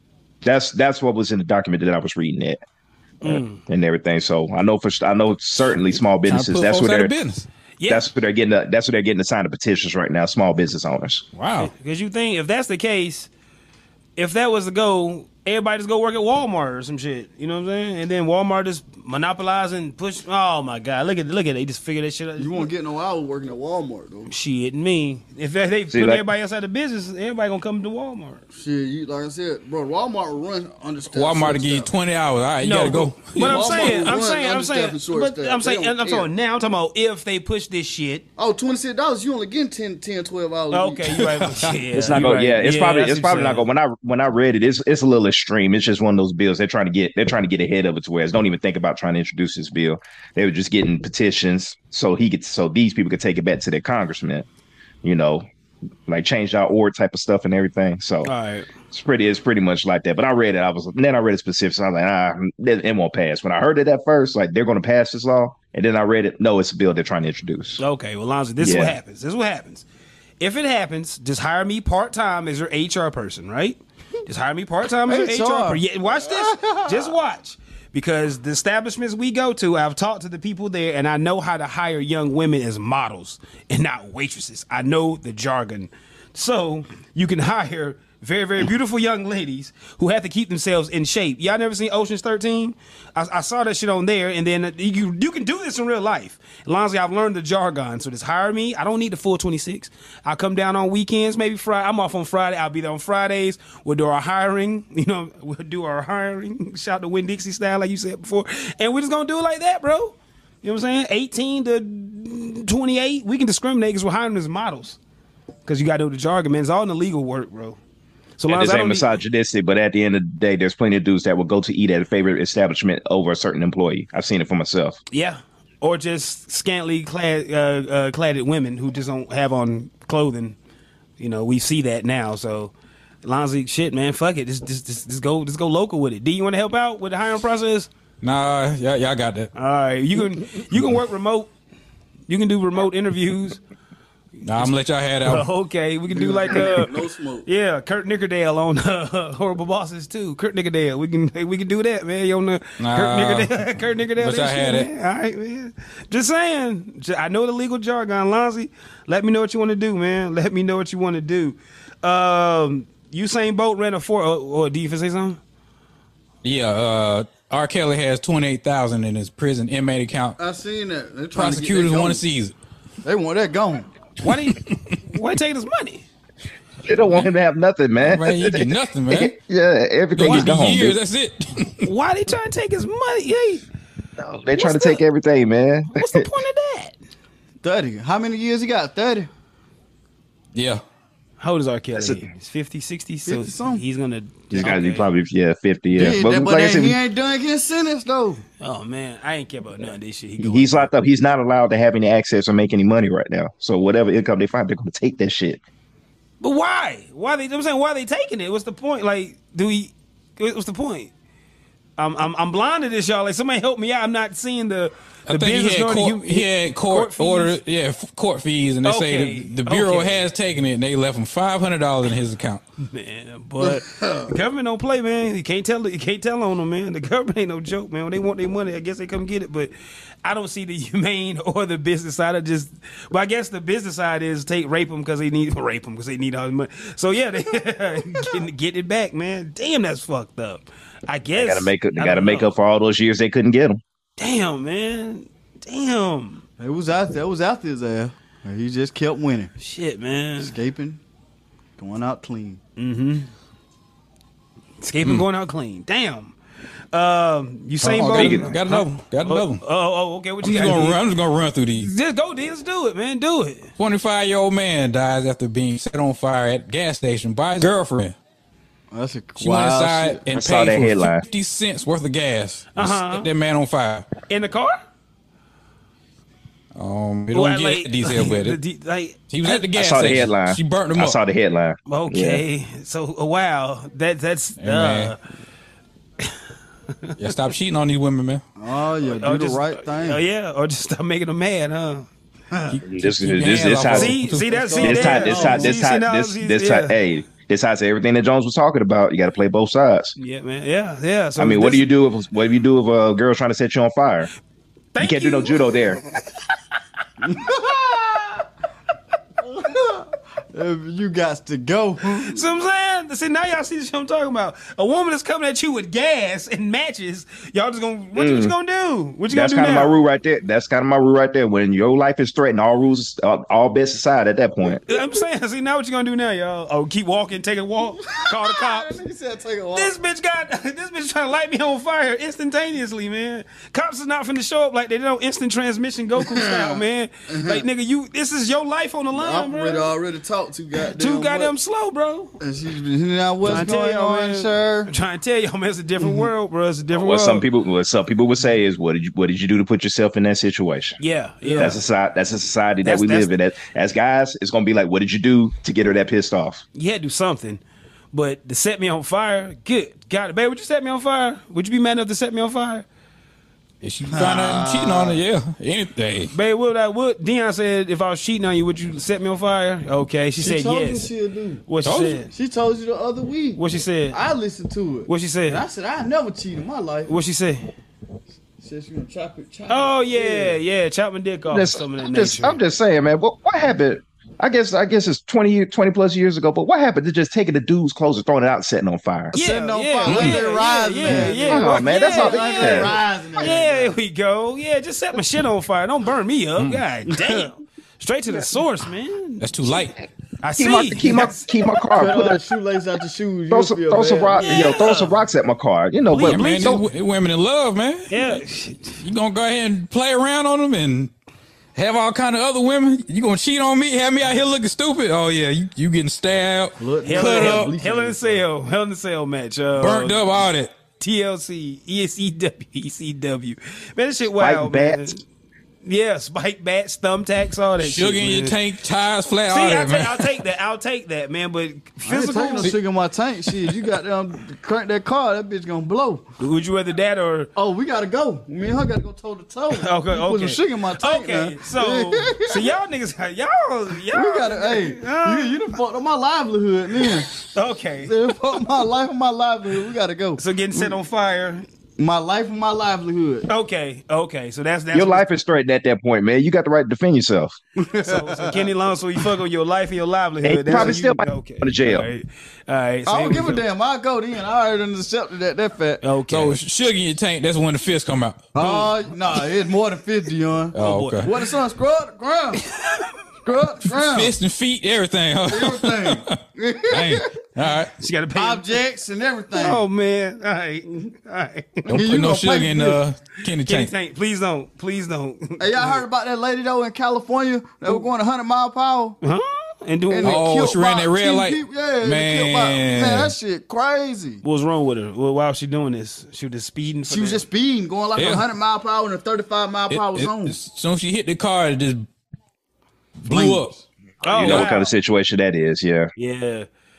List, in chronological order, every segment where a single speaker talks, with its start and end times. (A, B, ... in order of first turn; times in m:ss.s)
0:00.4-0:02.6 A
0:03.2-0:03.6 B
0:03.2-0:07.2 A
0:06.2-0:07.5 C
0:07.8-0:08.1 B
0:07.9-0:11.2 A
0:11.4-0:11.7 C
0:11.6-0:13.3 B
0:14.2-0:22.7 B
0:22.4-0:24.3 D
0:24.3-0:28.4 B
0:25.9-0:26.2 A
0:28.5-0:31.9 D
0:31.1-0:34.1 C
0:32.6-0:38.3 B
0:33.4-0:36.3 D
0:38.4-0:41.4 D
0:40.7-0:43.7 B
0:41.9-0:54.5 A
0:55.0-0:55.4 A
0:56.1-0:58.3 A
0:58.2-0:58.7 B
0:58.9-1:07.8 A
1:07.8-1:09.8 B
1:08.6-1:09.0 A
1:10.4-1:55.0 B
1:15.0-1:17.1 D
1:55.7-1:57.8 B
1:58.4-1:59.1 B
1:58.5-2:05.0 A
2:05.1-2:10.6 B
2:11.2-2:12.7 B
2:13.2-2:17.9 B
2:18.2-2:19.5 C
2:19.6-2:21.5 B
2:22.3-2:23.6 B
2:24.4-2:25.5 C
2:25.2-2:45.4 B
2:26.1-2:27.5 D
2:32.8-2:34.9 C
2:46.4-2:50.4 C
2:50.4-2:52.2 D
2:51.3-2:52.5 C
2:53.0-2:53.9 D
2:54.2-2:56.1 B
2:56.8-3:01.0 A
2:58.0-2:59.3 C
3:00.2-3:01.9 C
3:01.8-3:03.6 B
3:04.2-3:06.3 A
3:04.5-3:05.0 B
3:05.9-3:07.0 B
3:07.6-3:09.3 D
3:10.6-3:10.8 C
3:11.4-3:15.1 B
3:12.0-3:12.3 A
3:13.3-3:13.8 D
3:14.5-3:17.0 A
3:16.0-3:18.4 D
3:18.6-3:20.9 B
3:20.4-3:25.6 A
3:26.4-3:31.1 B
3:32.0-3:37.6 B
3:35.3-3:42.6 C
3:38.8-3:40.2 B
3:42.8-3:49.7 B
3:43.6-3:44.4 D
3:50.2-4:02.5 B
4:01.3-4:03.8 A
4:04.2-4:06.4 B
4:06.6-4:09.5 D
4:09.6-4:10.6 B
4:10.4-4:11.0 D
4:11.8-4:12.6 D
4:12.8-4:13.3 B
4:14.8-4:16.4 B
4:16.9-4:21.0 B
4:17.8-4:19.6 C
4:17.9-4:18.5 A
4:20.4-4:21.9 C
4:21.8-4:23.7 B
4:23.8-4:28.2 C
4:28.9-4:30.2 D
4:29.4-4:34.1 C
4:30.3-4:31.2 A
4:32.7-4:33.3 B
4:34.3-4:34.8 B
4:36.8-4:38.6 C
4:37.3-4:39.2 B
4:39.3-4:41.2 C
4:39.5-4:42.4 A
4:41.9-4:45.2 B
4:44.6-4:45.2 C
4:47.2-4:48.4 C
4:48.6-4:50.2 D
4:49.1-4:52.1 B
4:52.7-4:54.6 C
4:52.9-4:54.2 A
4:53.9-4:57.0 B
4:54.5-4:55.8 D
4:54.8-5:00.2 A
5:00.2-5:01.9 B
5:01.4-5:04.3 A
5:04.9-5:05.8 B
5:05.0-5:06.0 A
5:07.2-5:08.5 D
5:09.4-5:12.4 D
5:12.3-5:19.9 B
5:18.2-5:18.5 A
5:19.3-5:24.8 A
5:24.8-5:29.0 B
5:28.0-5:30.0 D
5:29.7-5:39.9 B
5:36.2-5:37.6 D
5:39.1-5:41.5 D
5:40.9-5:42.4 B
5:42.4-5:44.9 D
5:43.4-5:47.5 B
5:46.0-5:46.3 D
5:46.9-5:51.0 A
5:51.0-5:51.8 B
5:51.4-5:51.7 D
5:51.6-5:56.6 A
5:52.8-5:53.3 B
5:56.7-6:02.9 B
6:03.8-6:06.3 C
6:04.1-6:05.2 D
6:06.3-6:11.1 B
6:10.4-6:11.6 D
6:11.7-6:12.3 B
6:11.8-6:12.2 C
6:12.3-6:17.2 D
6:13.6-6:14.2 B
6:15.1-6:15.6 B
6:17.1-6:17.7 B
6:18.6-6:20.6 D
6:19.7-6:22.6 B
6:21.5-6:29.4 A
6:29.3-6:34.0 D
6:29.3-6:39.4 B
6:30.1-6:30.4 C
6:31.2-6:33.0 A
6:37.1-6:37.4 D
6:39.4-6:40.0 C
6:40.4-6:41.5 B
6:40.6-6:42.4 A
6:41.9-6:44.7 D
6:43.5-6:46.8 A
6:44.4-6:45.2 B
6:46.1-6:46.8 B
6:46.2-6:48.4 C
6:48.1-6:49.0 B
6:49.0-6:51.1 C
6:51.8-6:57.7 C
6:56.8-6:58.4 D
6:57.0-7:00.4 B
6:59.8-7:00.7 C
7:01.0-7:05.2 B
7:04.4-7:05.1 A
7:05.8-7:08.6 B
7:07.8-7:10.3 C
7:09.5-7:12.8 B
7:12.0-7:16.3 D
7:16.4-7:17.5 B
7:17.6-7:22.8 D
7:19.7-7:25.6 B
7:24.1-7:27.3 D
7:27.0-7:28.2 B
7:28.0-7:31.0 D
7:30.4-7:31.7 B
7:32.0-7:33.5 D
7:33.5-7:35.3 B
7:34.9-7:37.6 A
7:37.8-7:38.7 D
7:38.0-7:43.6 B
7:40.4-7:42.1 A
7:43.1-7:46.0 D
7:46.0-7:46.6 B
7:46.3-7:48.8 C
7:48.6-7:52.6 D
7:50.8-7:51.3 C
7:50.8-7:51.3 B
7:52.8-7:53.1 B
7:53.4-7:54.3 D
7:53.9-7:56.4 C
7:55.5-7:57.3 D
7:56.9-7:57.9 C
7:58.0-7:58.8 B
7:58.4-7:59.8 D
7:59.6-8:01.9 B
8:01.9-8:03.0 D
8:01.9-8:03.9 C
8:03.6-8:06.0 B
8:05.6-8:09.2 D
8:09.2-8:10.4 B
8:10.1-8:14.4 D
8:10.2-8:13.4 C
8:14.4-8:17.4 B
8:17.1-8:20.6 D
8:18.2-8:18.4 C
8:19.9-8:22.1 C
8:23.2-8:23.7 C
8:23.3-8:23.8 D
8:24.2-8:24.9 B
8:24.2-8:26.1 A
8:26.2-8:26.7 B